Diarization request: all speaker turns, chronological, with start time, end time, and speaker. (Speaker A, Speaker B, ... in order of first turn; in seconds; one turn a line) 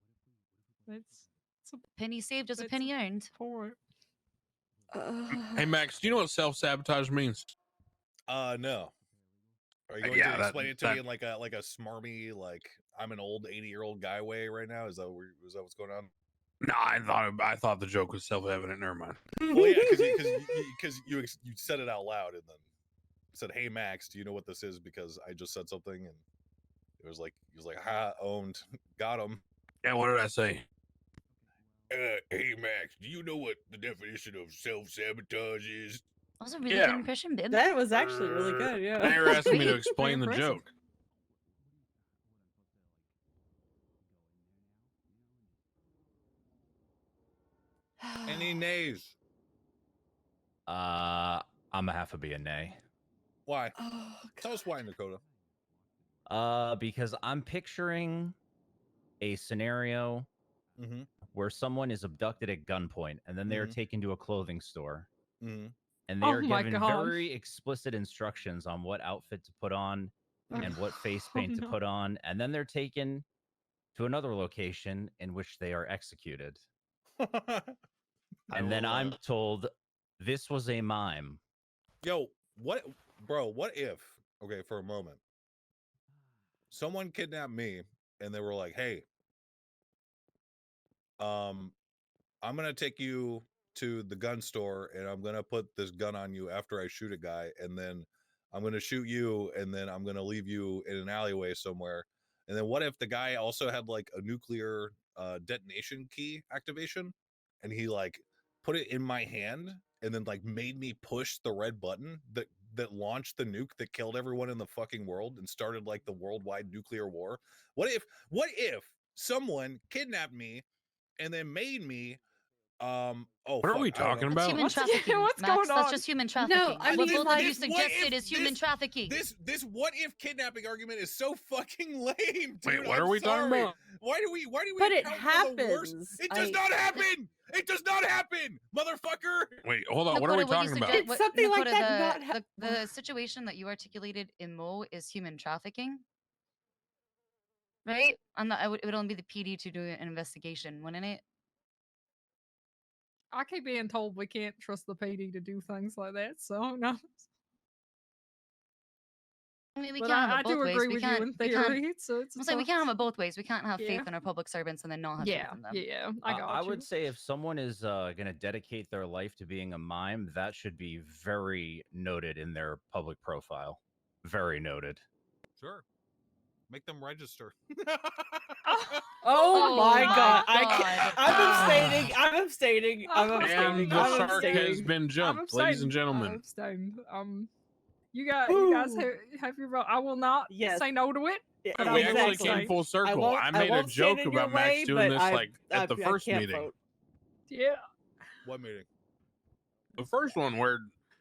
Speaker A: 0.9-1.8
Speaker B: 1.9-3.3
Speaker A: 2.6-3.8
Speaker C: 4.9-5.8
Speaker D: 5.3-7.5
Speaker E: 8.3-8.9
Speaker E: 9.9-16.1
Speaker D: 10.0-11.0
Speaker D: 16.6-19.2
Speaker C: 19.4-20.7
Speaker E: 19.5-22.6
Speaker E: 23.3-26.2
Speaker E: 27.0-29.4
Speaker D: 29.8-30.6
Speaker E: 31.9-36.0
Speaker B: 36.4-37.7
Speaker D: 36.7-37.1
Speaker C: 37.5-40.6
Speaker D: 37.9-40.7
Speaker B: 39.4-39.9
Speaker C: 48.0-48.7
Speaker E: 48.2-49.1
Speaker F: 50.7-52.8
Speaker E: 53.5-53.8
Speaker C: 53.7-54.7
Speaker E: 54.4-55.2
Speaker F: 56.3-58.3
Speaker F: 59.2-60.3
Speaker E: 60.8-61.1
Speaker F: 61.3-65.1
Speaker E: 63.5-63.8
Speaker E: 65.4-65.7
Speaker F: 66.1-73.2
Speaker A: 66.2-67.3
Speaker A: 71.2-71.7
Speaker F: 73.9-76.6
Speaker E: 77.2-77.8
Speaker E: 78.5-79.2
Speaker F: 78.5-81.4
Speaker E: 82.0-85.2
Speaker E: 86.7-89.0
Speaker E: 91.2-91.7
Speaker E: 92.4-120.6
Speaker E: 121.2-122.2
Speaker E: 122.8-124.5
Speaker D: 123.6-124.6
Speaker B: 124.3-129.2
Speaker A: 124.5-126.0
Speaker C: 126.4-127.6
Speaker E: 126.8-139.6
Speaker D: 132.6-133.7
Speaker C: 133.3-133.7
Speaker C: 134.8-136.8
Speaker D: 139.6-141.1
Speaker B: 140.1-146.0
Speaker C: 140.9-142.9
Speaker B: 147.8-151.2
Speaker A: 153.3-157.3
Speaker B: 159.8-161.8
Speaker A: 160.0-162.9
Speaker B: 162.4-165.8
Speaker A: 163.8-164.1
Speaker A: 165.2-166.9
Speaker F: 166.3-175.0
Speaker E: 175.6-175.8
Speaker E: 176.7-179.0
Speaker A: 178.7-180.6
Speaker C: 179.2-184.9
Speaker B: 179.5-182.1
Speaker E: 180.8-181.9
Speaker D: 181.4-182.0
Speaker A: 183.1-187.5
Speaker D: 183.4-186.4
Speaker E: 184.1-184.5
Speaker A: 188.1-192.8
Speaker C: 188.5-189.1
Speaker C: 190.5-190.9
Speaker C: 191.6-196.8
Speaker D: 191.8-196.7
Speaker A: 197.5-197.8
Speaker E: 198.4-198.9
Speaker D: 200.0-200.9